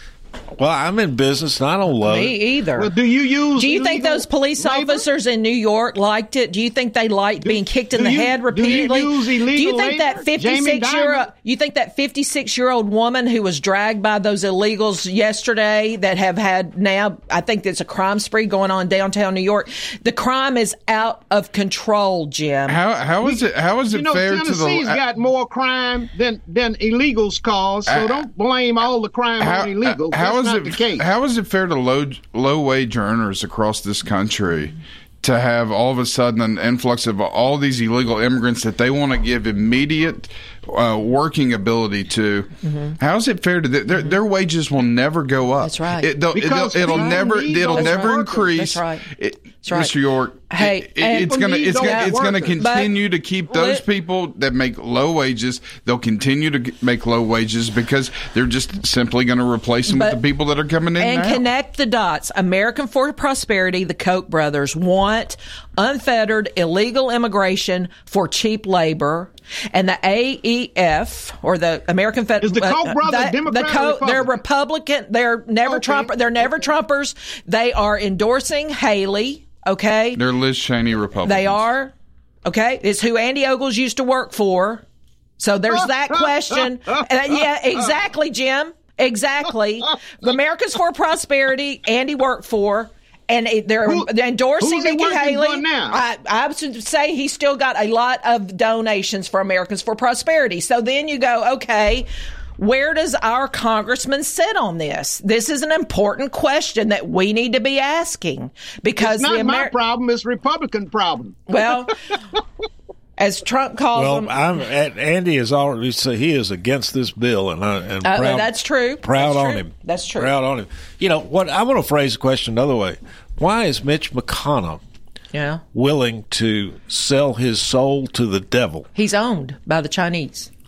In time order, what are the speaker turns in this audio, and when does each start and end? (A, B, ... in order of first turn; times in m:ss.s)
0:00.6-0:02.4 A
0:02.1-0:02.9 B
0:02.8-0:05.0 C
0:03.6-0:22.8 B
0:07.4-0:11.3 C
0:22.7-0:25.0 D
0:23.2-0:31.1 C
0:27.9-0:28.3 D
0:29.4-1:01.5 D
0:42.7-0:43.0 B
0:45.6-0:46.1 B
0:46.3-0:48.4 C
0:46.8-0:49.0 B
0:49.6-0:49.9 B
0:50.5-0:52.9 B
0:51.2-0:52.6 C
0:53.5-0:53.8 B
0:59.9-1:00.2 B
1:01.0-1:20.2 B
1:12.4-1:14.4 C
1:15.6-1:16.1 C
1:20.2-1:21.6 D
1:21.2-1:21.9 B
1:22.4-1:24.8 B
1:25.4-1:42.1 B
1:25.7-1:27.0 C
1:34.6-1:36.0 C
1:42.6-1:49.7 B
1:49.0-1:51.6 C
1:51.5-1:51.9 B
1:53.2-1:54.3 B
1:53.9-2:04.8 A
1:58.0-2:00.3 B
2:05.3-2:05.6 B
2:05.7-2:08.9 A
2:09.0-2:10.5 B